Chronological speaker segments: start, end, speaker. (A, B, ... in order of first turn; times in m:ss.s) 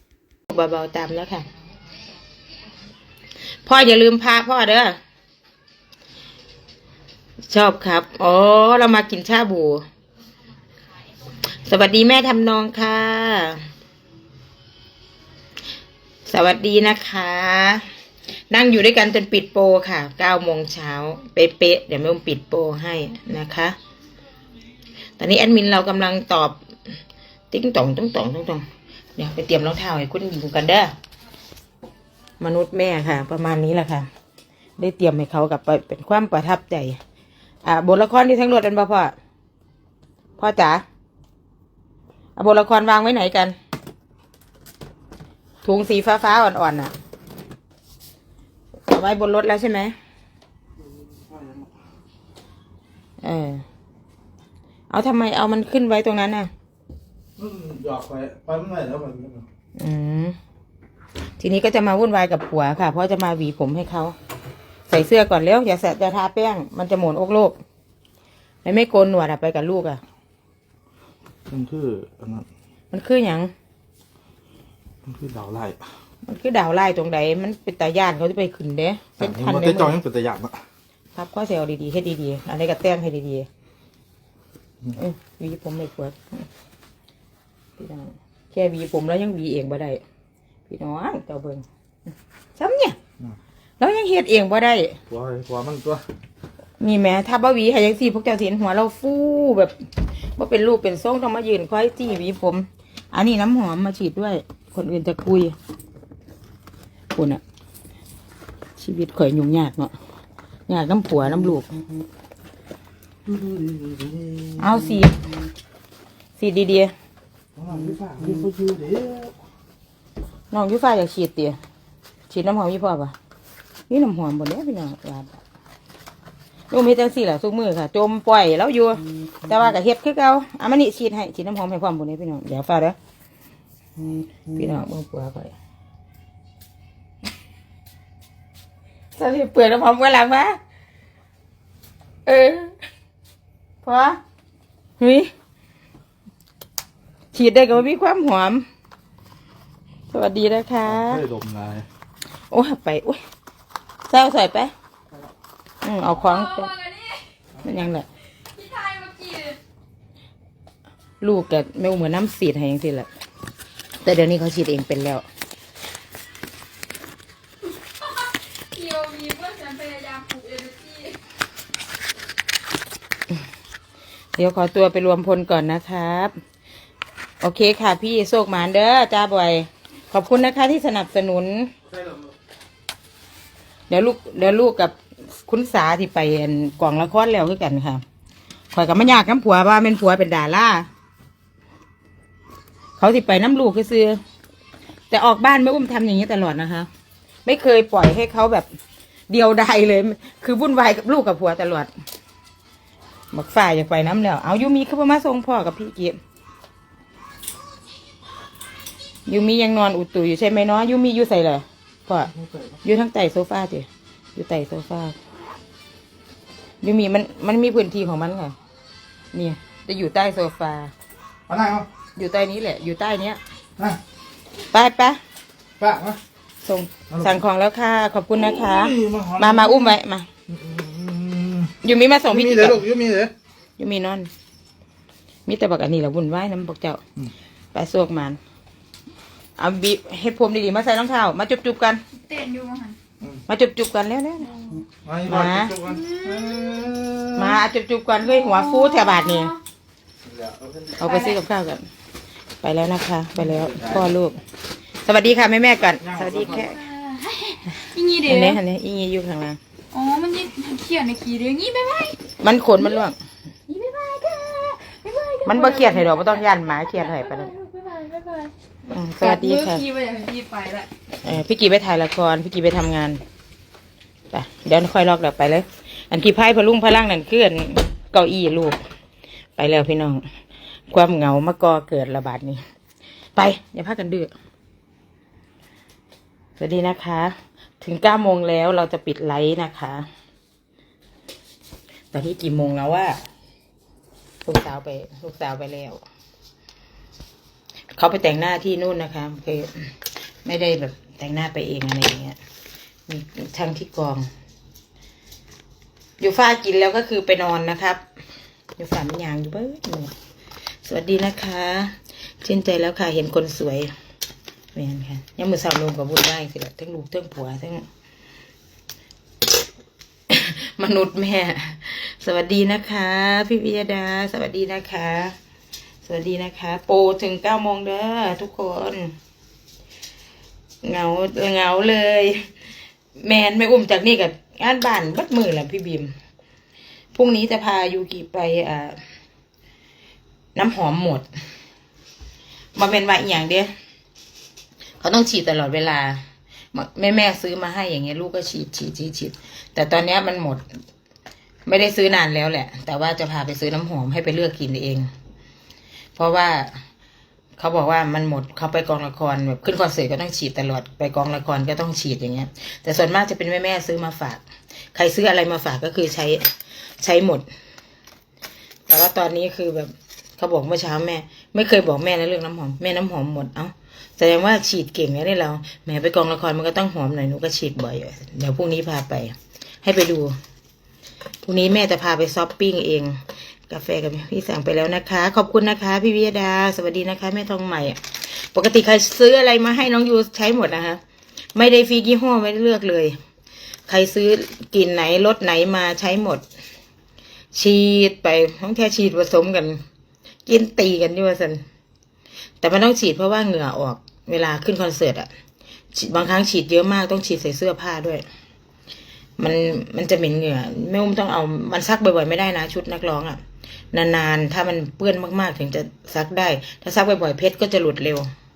0:00.5-0:01.5 A
0:03.7-0:05.0 A
0:07.5-0:09.8 A
0:11.6-0:13.7 A
0:16.3-0:17.8 A
0:18.5-0:23.8 A
0:25.2-0:26.9 A
0:27.5-0:28.7 A
0:29.2-0:31.0 A
0:32.4-0:34.1 A
0:34.8-0:37.0 A
0:37.6-0:39.2 A
0:40.4-0:40.8 A
0:42.4-0:43.6 A
0:45.6-0:46.9 A
0:48.9-0:50.0 A
0:51.3-0:51.7 B
0:53.2-0:53.6 A
0:54.9-0:56.5 A
0:57.4-0:59.5 B
0:59.8-1:00.4 A
1:01.4-1:04.2 A
1:04.9-1:07.6 A
1:08.6-1:10.0 A
1:11.5-1:12.5 B
1:12.9-1:13.5 A
1:15.1-1:15.9 B
1:16.2-1:20.0 A
1:19.2-1:20.6 B
1:21.2-1:23.5 A
1:25.0-1:26.5 A
1:27.8-1:30.0 A
1:30.7-1:31.6 A
1:32.6-1:33.0 A
1:33.8-1:35.0 A
1:35.1-1:36.0 B
1:36.8-1:39.8 A
1:40.4-1:45.6 A
1:47.1-1:47.4 A
1:48.8-1:50.0 A
1:50.7-1:51.7 A
1:53.3-1:54.8 B
1:54.6-1:55.2 A
1:56.4-1:56.9 A
1:57.6-1:59.4 B
2:00.5-2:01.6 A
2:02.3-2:03.2 A
2:03.9-2:05.4 A
2:06.7-2:13.0 A
2:14.5-2:15.5 A
2:19.2-2:20.6 A
2:22.3-2:22.8 A
2:23.8-2:24.2 A
2:25.0-2:25.3 A
2:27.3-2:28.7 A
2:30.1-2:31.2 A
2:30.9-2:31.9 B
2:32.5-2:33.2 A
2:34.1-2:34.7 A
2:35.8-2:36.7 A
2:36.1-2:37.2 C
2:37.6-2:38.1 A
2:38.5-2:39.6 C
2:41.2-2:43.1 A
2:44.0-2:45.2 A
2:47.6-2:51.2 C
2:54.4-2:56.4 A
2:57.4-3:01.7 A
3:03.9-3:08.0 A
3:08.7-3:10.9 A
3:13.0-3:14.2 A
3:15.1-3:16.9 A
3:17.4-3:18.7 A
3:19.3-3:21.9 A
3:23.3-3:26.2 A
3:29.3-3:32.3 A
3:32.8-3:35.2 A
3:36.8-3:38.6 A
3:39.3-3:40.9 A
3:41.5-3:41.9 B
3:42.2-3:43.4 A
3:44.7-3:45.2 A
3:45.8-3:46.2 B
3:46.6-3:50.3 A
3:48.4-3:50.0 B
3:50.5-3:51.7 B
3:51.8-3:52.9 A
3:52.3-3:53.3 B
3:53.8-3:54.3 A
3:55.5-3:57.0 A
3:57.7-3:58.4 A
3:59.6-4:02.0 A
4:02.2-4:03.0 C
4:03.5-4:04.5 A
4:04.4-4:04.8 C
4:05.0-4:07.6 B
4:05.3-4:05.7 A
4:05.8-4:06.8 C
4:07.4-4:09.5 A
4:08.2-4:09.6 C
4:10.2-4:11.2 B
4:11.0-4:11.9 A
4:11.0-4:11.3 C
4:12.6-4:14.4 A
4:13.4-4:14.1 B
4:15.0-4:16.8 A
4:16.0-4:16.7 B
4:16.5-4:18.6 C
4:18.3-4:19.6 A
4:19.9-4:22.2 C
4:22.4-4:23.2 A
4:23.7-4:28.5 C
4:25.5-4:27.5 A
4:28.9-4:29.8 A
4:29.2-4:30.9 C
4:31.2-4:33.2 A
4:34.3-4:38.9 A
4:39.6-4:40.2 A
4:40.9-4:42.6 A
4:43.4-4:44.3 A
4:46.6-4:50.1 A
4:52.1-4:53.2 A
4:54.4-4:56.0 A
4:58.0-5:02.4 A
5:03.1-5:04.3 A
5:06.2-5:08.0 A
5:08.8-5:10.1 A
5:10.8-5:13.9 A
5:14.7-5:17.9 A
5:20.3-5:25.4 A
5:26.1-5:29.2 A
5:30.8-5:32.5 A
5:33.2-5:36.1 A
5:37.2-5:39.0 A
5:40.6-5:41.3 A
5:42.8-5:43.7 A
5:45.0-5:46.2 A
5:46.7-5:50.6 A
5:51.7-5:55.1 A
5:56.2-5:56.8 A
5:57.6-6:04.4 A
6:04.9-6:07.5 A
6:08.9-6:20.4 A
6:21.4-6:31.0 A
6:31.6-6:33.2 A
6:33.9-6:36.4 A
6:37.5-6:39.8 A
6:40.5-6:41.6 A
6:42.6-6:45.3 A
6:45.9-6:48.2 A
6:49.4-6:53.4 A
6:53.9-6:58.3 A